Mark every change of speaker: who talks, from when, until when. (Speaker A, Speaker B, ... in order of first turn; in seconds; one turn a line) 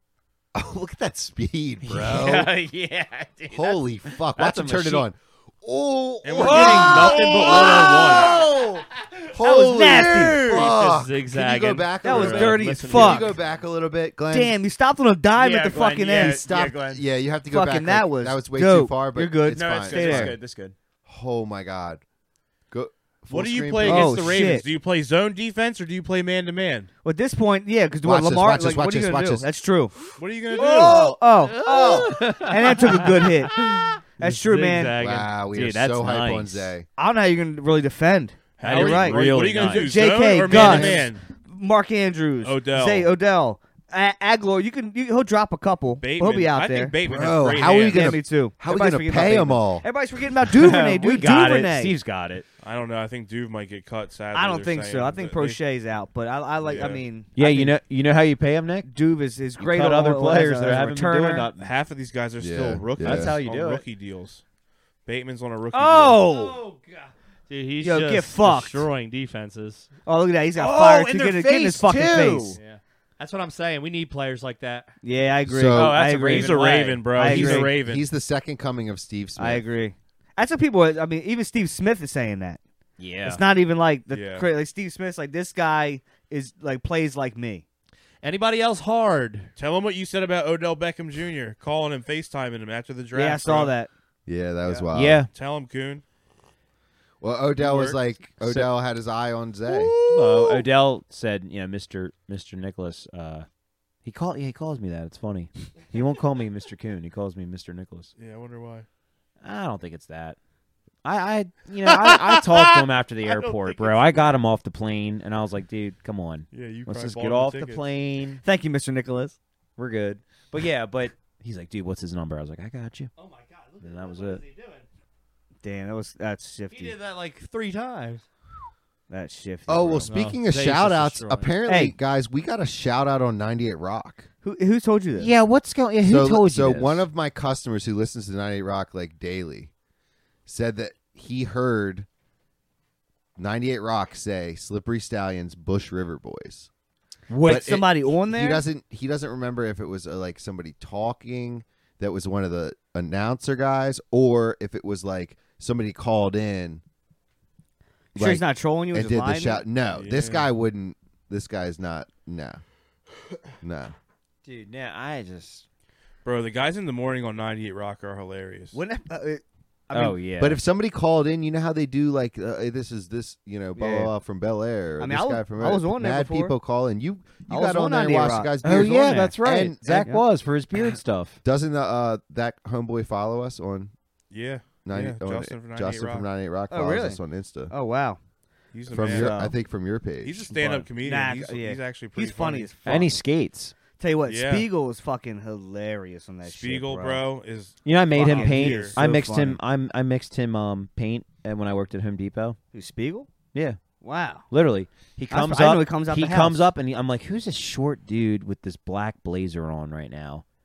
Speaker A: 0.5-2.5
Speaker B: 1.8-5.1
Speaker A: 3.5-8.5
Speaker C: 6.2-8.4
Speaker B: 6.4-8.9
Speaker A: 9.3-14.6
Speaker D: 9.4-10.6
Speaker B: 9.8-10.7
Speaker E: 10.4-13.3
Speaker D: 12.0-13.3
Speaker B: 12.7-13.1
Speaker D: 14.3-16.4
Speaker B: 15.4-17.0
Speaker A: 16.1-20.4
Speaker D: 17.5-20.4
Speaker B: 19.5-20.8
Speaker A: 21.1-22.0
Speaker A: 22.7-24.3
Speaker C: 23.3-26.9
Speaker D: 23.8-24.7
Speaker D: 27.0-29.9
Speaker A: 28.0-29.5
Speaker C: 30.2-31.1
Speaker B: 30.5-34.0
Speaker D: 30.7-33.6
Speaker D: 34.2-35.0
Speaker E: 34.2-35.3
Speaker A: 35.0-36.9
Speaker B: 35.4-36.7
Speaker D: 37.0-47.0
Speaker C: 38.6-41.2
Speaker B: 38.6-41.0
Speaker C: 42.4-43.1
Speaker C: 46.0-48.2
Speaker A: 47.0-49.9
Speaker D: 47.9-52.0
Speaker B: 50.5-52.5
Speaker C: 52.6-55.6
Speaker D: 54.3-57.8
Speaker C: 56.6-57.0
Speaker B: 57.4-58.9
Speaker D: 58.8-61.5
Speaker B: 59.6-61.7
Speaker C: 61.6-64.4
Speaker A: 62.4-63.4
Speaker B: 63.0-63.8
Speaker C: 65.1-66.2
Speaker D: 65.7-66.6
Speaker E: 66.2-69.9
Speaker D: 67.8-68.8
Speaker D: 70.1-72.6
Speaker B: 70.6-72.6
Speaker E: 72.6-74.9
Speaker D: 75.0-77.7
Speaker A: 75.5-76.0
Speaker B: 75.7-77.7
Speaker C: 76.2-78.0
Speaker A: 77.3-79.7
Speaker D: 79.4-82.6
Speaker B: 83.0-83.4
Speaker D: 83.2-87.7
Speaker C: 84.1-84.5
Speaker E: 88.2-89.5
Speaker C: 89.6-93.7
Speaker D: 93.1-93.9
Speaker A: 94.3-95.3
Speaker B: 94.9-95.3
Speaker C: 95.3-96.0
Speaker A: 97.2-99.9
Speaker C: 97.6-98.0
Speaker B: 98.4-98.7
Speaker B: 100.0-103.5
Speaker C: 100.1-100.6
Speaker B: 104.0-108.1
Speaker C: 108.2-108.9
Speaker B: 109.4-110.4
Speaker B: 111.0-118.4
Speaker C: 111.9-114.4
Speaker C: 116.5-117.9
Speaker D: 118.4-119.4
Speaker B: 119.8-123.1
Speaker E: 123.2-124.9
Speaker B: 123.8-124.4
Speaker D: 125.6-127.0
Speaker E: 126.7-128.2
Speaker D: 129.1-130.1
Speaker A: 129.7-134.3
Speaker E: 130.0-131.6
Speaker D: 131.7-131.9
Speaker D: 134.4-135.3
Speaker B: 135.2-137.1
Speaker A: 136.0-139.7
Speaker A: 140.5-142.1
Speaker A: 143.4-146.7
Speaker D: 147.3-148.6
Speaker A: 147.4-156.8
Speaker D: 158.2-159.7
Speaker A: 158.2-162.6
Speaker C: 159.9-160.5
Speaker A: 163.6-163.9
Speaker B: 164.4-165.7
Speaker C: 166.2-168.8
Speaker D: 168.7-170.2
Speaker B: 169.9-170.6
Speaker A: 170.4-180.2
Speaker D: 173.8-174.1
Speaker D: 175.0-176.6
Speaker D: 177.5-179.3
Speaker B: 178.6-181.4
Speaker A: 181.4-183.9
Speaker C: 184.3-186.3
Speaker A: 184.8-187.7
Speaker D: 186.7-188.2
Speaker C: 188.7-189.4
Speaker A: 188.9-190.8
Speaker D: 189.0-189.6
Speaker C: 190.2-192.7
Speaker D: 191.0-193.2
Speaker B: 192.9-193.8
Speaker D: 194.0-197.2
Speaker C: 194.3-194.7
Speaker C: 196.4-199.0
Speaker B: 197.8-202.6
Speaker D: 198.1-199.6
Speaker D: 202.7-203.3
Speaker B: 203.5-203.8
Speaker D: 204.0-204.5
Speaker B: 204.5-210.4
Speaker D: 205.3-206.7